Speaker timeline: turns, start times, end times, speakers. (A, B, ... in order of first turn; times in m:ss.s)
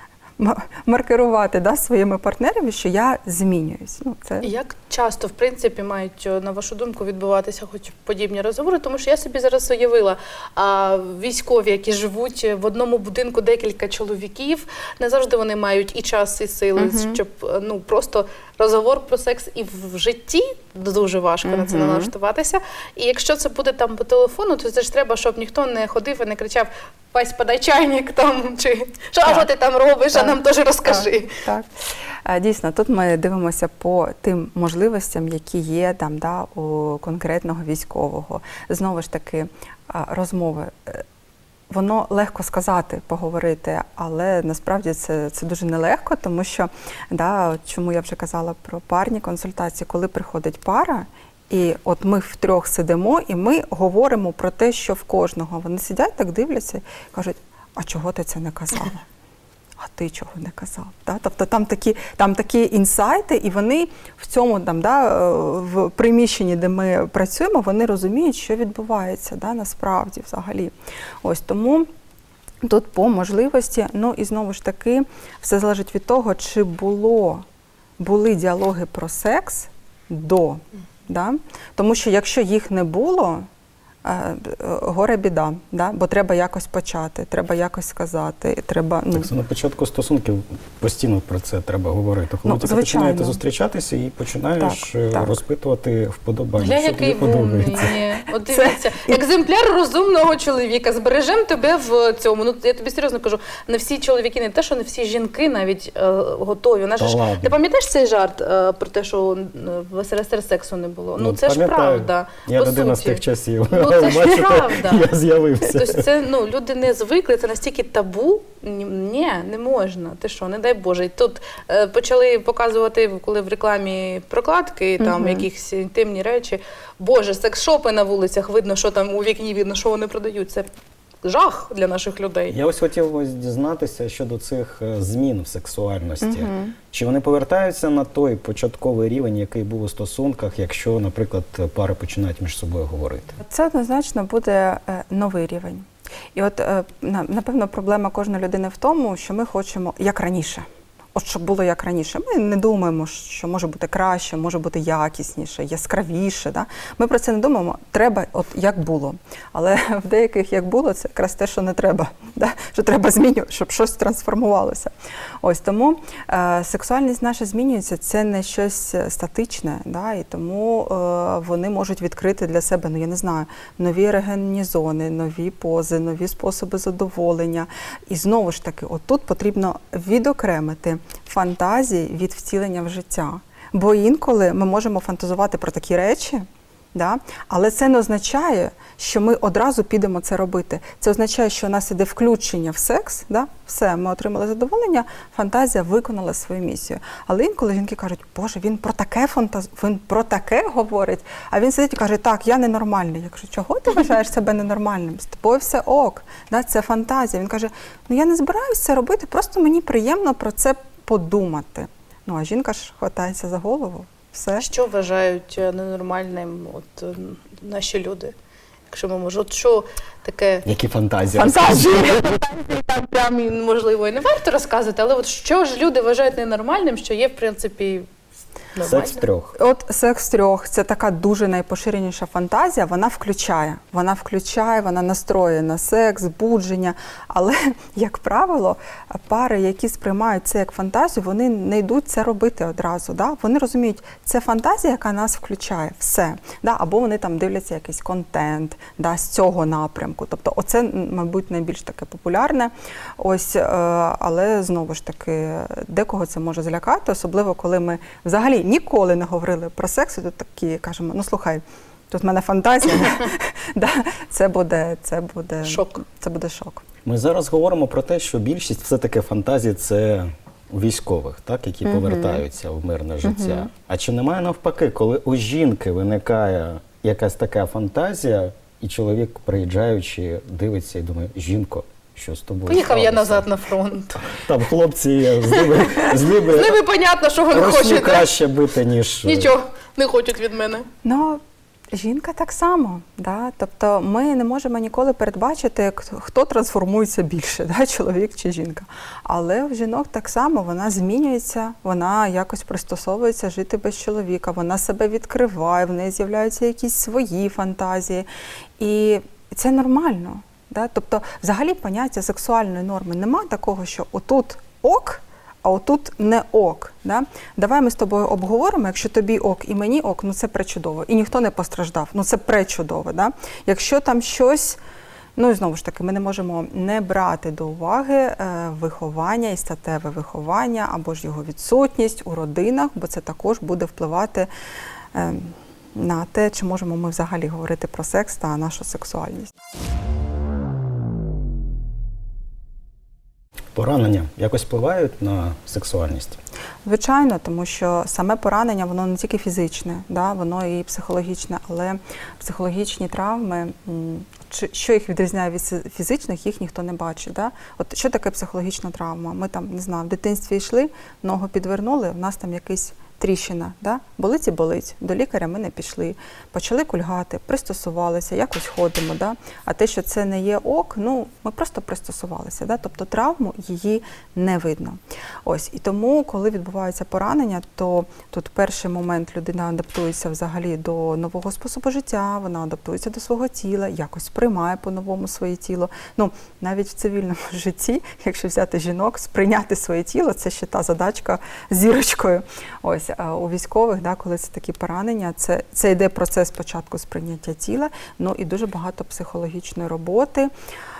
0:00.4-0:04.5 A
0:04.4-0:31.4 B
0:16.8-0:17.2 A
0:21.4-0:22.1 A
0:30.9-0:41.0 A
0:41.7-0:59.0 A
0:59.8-1:11.9 A
1:12.6-1:17.4 A
1:18.0-1:23.5 A
1:24.0-1:29.3 A
1:29.1-1:37.9 C
1:32.4-1:33.4 A
1:34.6-1:35.4 A
1:36.6-1:55.1 B
1:38.5-1:39.2 A
1:47.0-1:47.6 C
1:51.2-1:56.1 C
1:55.6-2:10.7 B
2:05.0-2:05.5 A
2:11.2-2:12.6 B
2:12.5-2:23.4 C
2:16.2-2:16.8 A
2:23.4-2:44.9 A
2:45.4-3:34.7 A
3:34.6-3:38.3 B
3:38.9-3:40.7 B
3:40.6-3:42.3 C
3:41.4-3:42.4 A
3:42.1-3:48.1 B
3:48.8-3:49.2 B
3:48.8-3:49.5 C
3:49.6-4:26.8 A
4:25.6-4:26.0 B
4:27.0-4:43.5 C
4:31.8-4:32.4 A
4:33.2-4:33.7 A
4:42.7-4:44.3 B
4:44.2-4:46.8 C
4:45.5-4:48.3 B
4:47.5-4:49.5 C
4:49.2-4:50.9 B
4:51.0-4:51.4 A
4:51.9-5:08.3 A
5:08.8-5:24.8 A
5:25.4-5:34.5 A
5:35.1-5:39.5 A
5:43.8-5:46.4 C
5:46.8-6:40.5 A